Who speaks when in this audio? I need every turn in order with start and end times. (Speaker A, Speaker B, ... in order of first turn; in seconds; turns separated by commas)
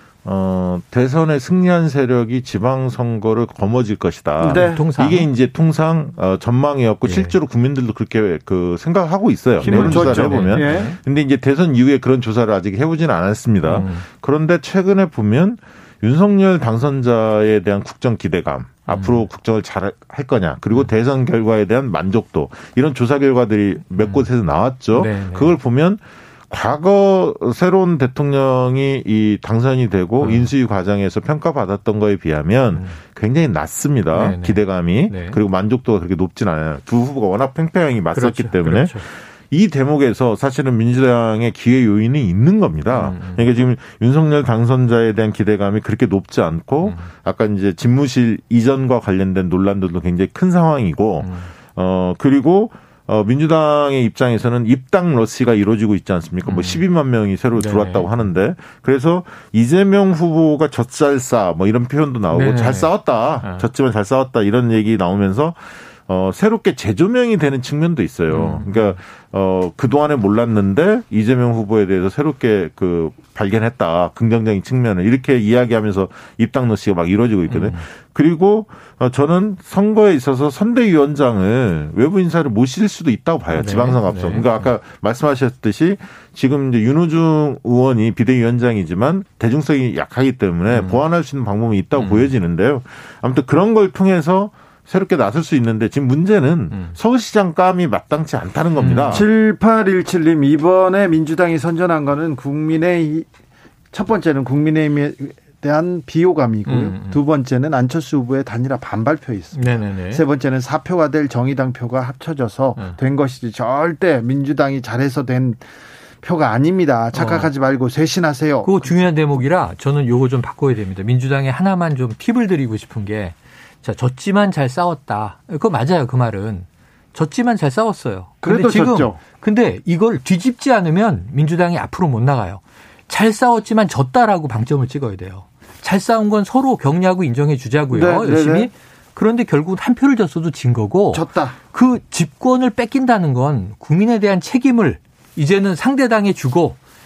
Speaker A: 0.2-99.3, Speaker B: 4.4-4.8, Speaker C: 4.5-5.3, Speaker C: 7.0-7.3, Speaker C: 9.6-11.0, Speaker B: 9.6-10.9, Speaker C: 13.6-14.1, Speaker C: 18.9-19.2, Speaker C: 24.0-24.3, Speaker C: 24.9-25.6, Speaker C: 30.2-30.5, Speaker C: 32.7-33.0, Speaker C: 34.1-35.4, Speaker C: 38.1-39.0, Speaker C: 42.9-43.5, Speaker C: 46.8-47.1, Speaker C: 51.2-51.5, Speaker C: 56.4-56.8, Speaker C: 57.5-58.3, Speaker C: 62.3-63.7, Speaker C: 68.3-69.0, Speaker C: 77.5-77.8, Speaker C: 83.5-84.7, Speaker C: 90.7-91.0, Speaker C: 92.0-92.3, Speaker C: 96.7-97.0, Speaker C: 98.8-99.2, Speaker B: 99.1-103.3, Speaker B: 103.9-115.6, Speaker C: 106.7-107.2, Speaker C: 109.5-110.2, Speaker B: 116.2-118.9, Speaker C: 117.1-117.5, Speaker C: 118.6-146.8, Speaker B: 128.4-129.2, Speaker B: 137.9-138.7, Speaker B: 141.1-141.6